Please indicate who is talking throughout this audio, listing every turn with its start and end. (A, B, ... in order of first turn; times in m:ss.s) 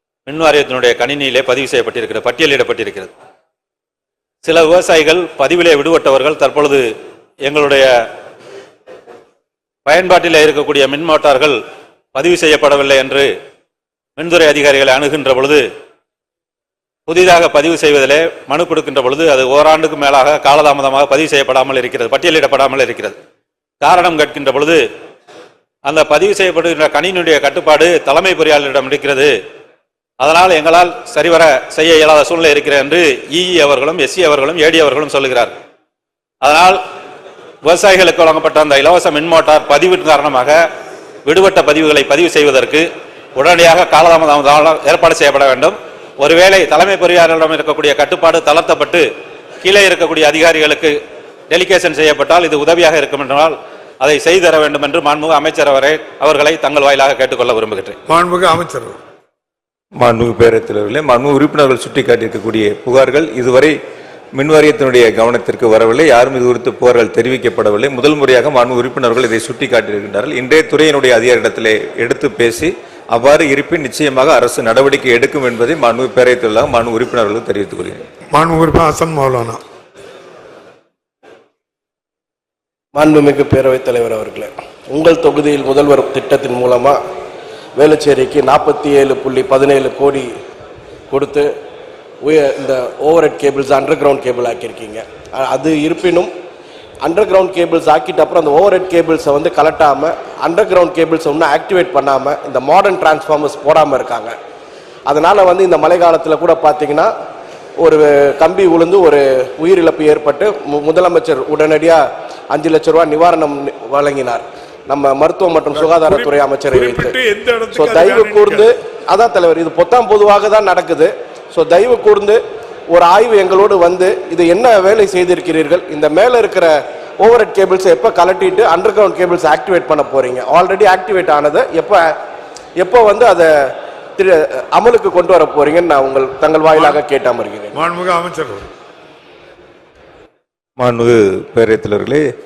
0:00.3-0:03.1 A
0:04.4-0:06.9 A
0:07.4-0:08.1 A
0:09.9-0:11.6 A
0:12.2-0:13.3 A
0:14.2-0:15.7 A
0:17.1-0:23.2 A
0:23.8-0:24.9 A
0:25.8-0:29.4 A
0:30.2-0:35.6 A
0:36.4-0:36.8 A
0:37.6-0:40.7 A
0:41.3-0:49.1 A
0:49.6-0:58.0 A
0:58.1-0:59.0 B
1:00.0-1:03.8 C
1:04.4-1:18.0 C
1:18.3-1:19.6 B
1:22.9-1:27.0 D
1:27.8-1:30.3 D
1:31.1-1:31.5 D
1:32.2-1:36.3 D
1:37.0-1:44.3 D
1:45.1-1:47.1 D
1:47.8-1:57.2 D
1:55.7-1:58.7 B
1:57.7-2:02.4 D
2:02.9-2:12.1 D
2:12.8-2:13.5 D
2:14.2-2:17.7 D
2:16.7-2:17.0 B
2:17.7-2:18.7 B
2:20.8-2:22.2 C